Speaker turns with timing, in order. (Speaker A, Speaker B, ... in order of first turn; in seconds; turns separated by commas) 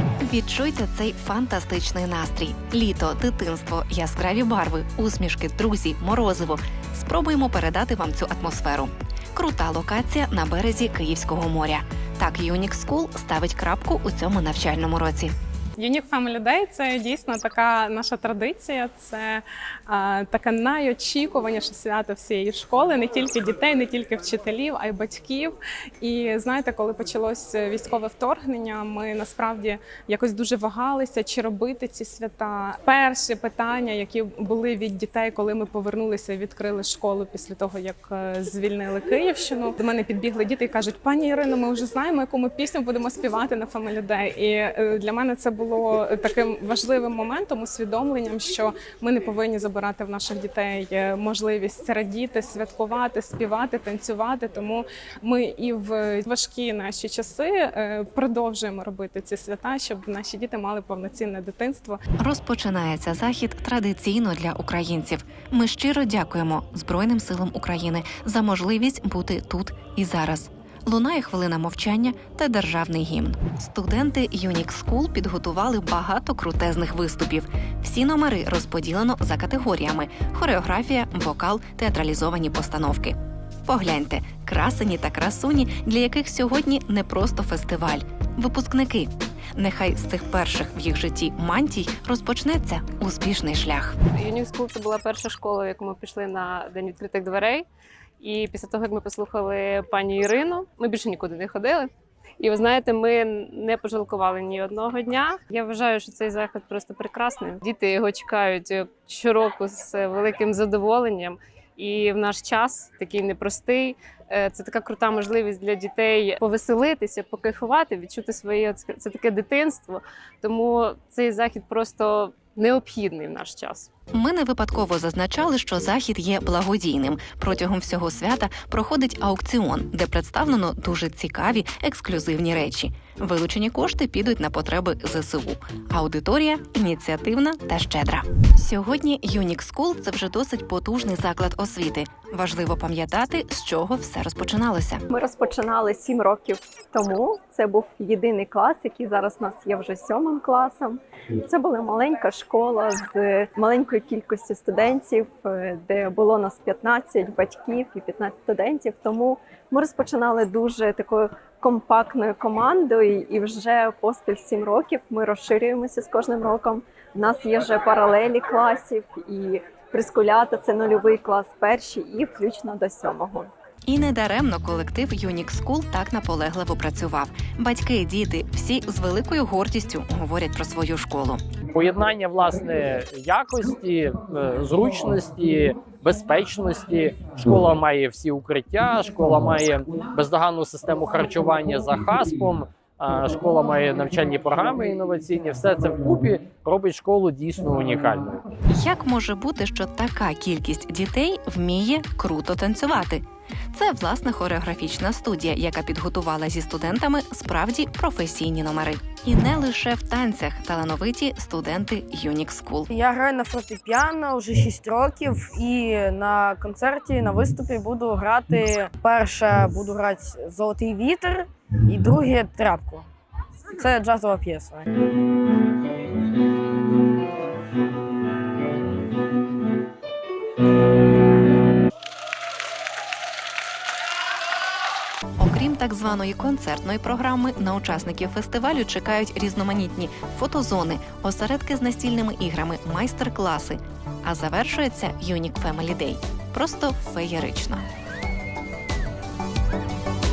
Speaker A: 0.2-15.3, Speaker B: 15.8-62.0, Speaker A: 62.2-94.0, Speaker C: 94.2-97.7, Speaker C: 98.2-123.9, Speaker A: 124.1-145.0, Speaker D: 145.1-173.5, Speaker A: 173.9-181.4, Speaker E: 181.7-198.4, Speaker A: 198.7-212.9, Speaker F: 212.9-223.1, Speaker F: 223.7-224.9, Speaker A: 235.4-247.8